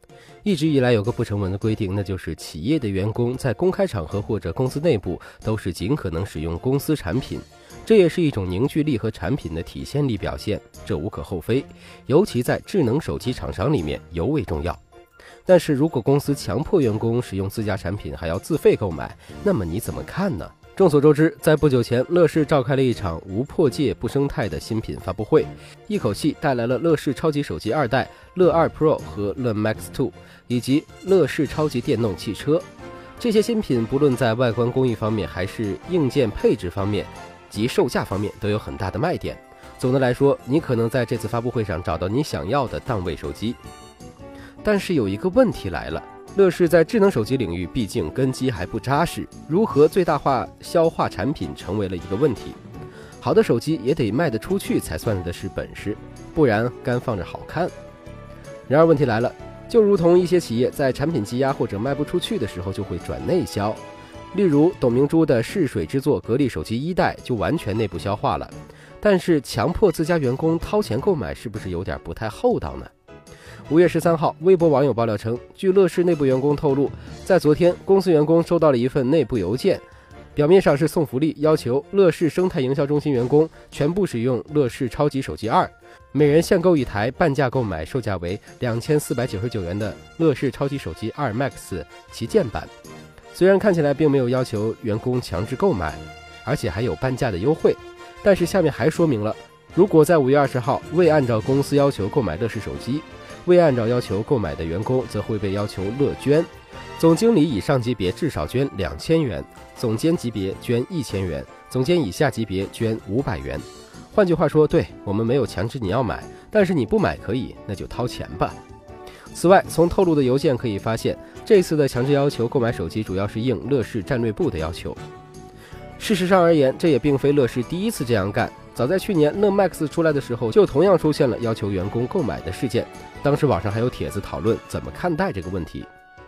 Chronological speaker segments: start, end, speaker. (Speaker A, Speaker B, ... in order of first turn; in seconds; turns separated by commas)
Speaker A: 0.4-14.8, Speaker A: 15.4-32.7, Speaker A: 33.2-43.6, Speaker A: 44.6-52.6, Speaker A: 53.2-57.7, Speaker A: 58.7-63.8, Speaker A: 64.3-72.9, Speaker A: 73.7-92.7, Speaker A: 93.3-118.6, Speaker A: 119.3-125.0, Speaker A: 126.0-135.9